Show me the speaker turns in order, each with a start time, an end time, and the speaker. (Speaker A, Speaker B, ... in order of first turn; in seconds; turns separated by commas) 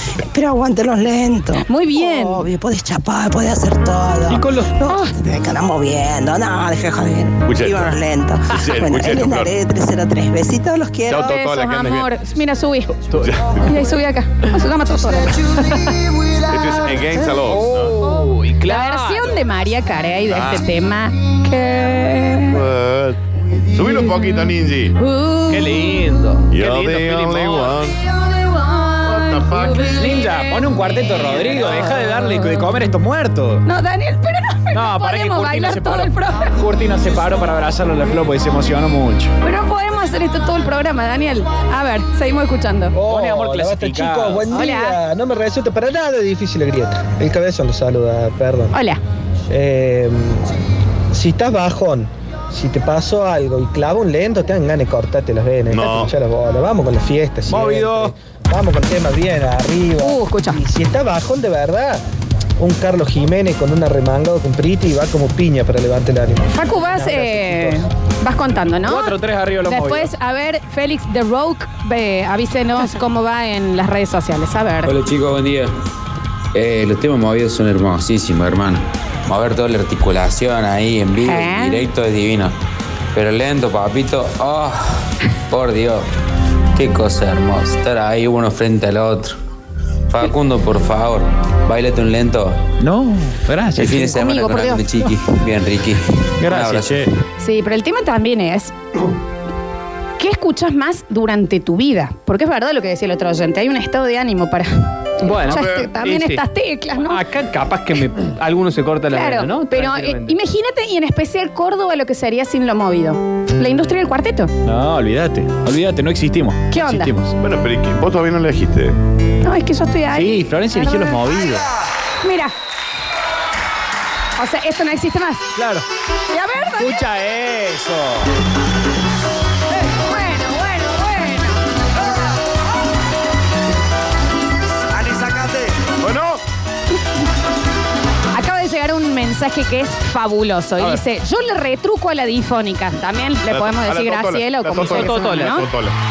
Speaker A: 0.2-11.2, Speaker B: 1.6-2.5, Speaker C: 4.3-4.7, Speaker B: 4.9-5.1, Speaker D: 7.4-8.0, Speaker D: 8.5-9.5, Speaker D: 11.1-12.1, Speaker B: 11.1-12.9, Speaker E: 13.1-13.4, Speaker D: 13.2-13.6, Speaker B: 13.6-15.5, Speaker D: 16.5-17.9, Speaker C: 17.5-18.9, Speaker E: 18.0-19.0, Speaker B: 18.6-22.6, Speaker D: 20.3-20.6, Speaker D: 22.5-23.2, Speaker D: 23.7-24.9, Speaker B: 24.9-25.9, Speaker E: 25.5-27.8, Speaker D: 26.5-28.0, Speaker B: 28.6-32.5, Speaker D: 29.0-29.9, Speaker C: 30.0-33.6, Speaker B: 33.6-36.5, Speaker C: 34.7-39.3, Speaker B: 39.4-42.9, Speaker F: 42.9-48.7, Speaker C: 43.1-44.6, Speaker B: 44.5-45.0, Speaker B: 48.7-49.0, Speaker F: 49.5-50.5, Speaker F: 51.1-62.0, Speaker D: 55.7-56.1, Speaker C: 57.5-58.1, Speaker B: 60.0-60.6, Speaker F: 62.6-67.8, Speaker B: 66.5-74.9, Speaker C: 68.8-70.1, Speaker G: 74.8-75.7, Speaker G: 76.5-82.5, Speaker B: 81.2-81.8, Speaker G: 83.1-86.1, Speaker G: 86.7-89.3, Speaker G: 90.1-92.6, Speaker C: 92.8-94.2, Speaker G: 93.7-97.1, Speaker B: 94.1-94.8, Speaker C: 96.4-97.1, Speaker B: 97.4-98.7, Speaker B: 100.2-107.2, Speaker E: 105.2-106.4, Speaker D: 105.5-105.9, Speaker E: 107.1-110.3, Speaker B: 109.1-114.5, Speaker C: 114.6-117.3, Speaker B: 116.7-117.1, Speaker D: 117.4-119.0, Speaker B: 119.4-121.2, Speaker C: 120.1-121.7, Speaker B: 122.2-122.5, Speaker B: 124.4-125.5, Speaker C: 125.5-125.8, Speaker B: 126.3-127.0, Speaker C: 126.8-128.3, Speaker B: 129.8-131.6, Speaker D: 136.0-136.4, Speaker B: 138.3-145.7, Speaker D: 143.5-145.9, Speaker E: 144.8-145.6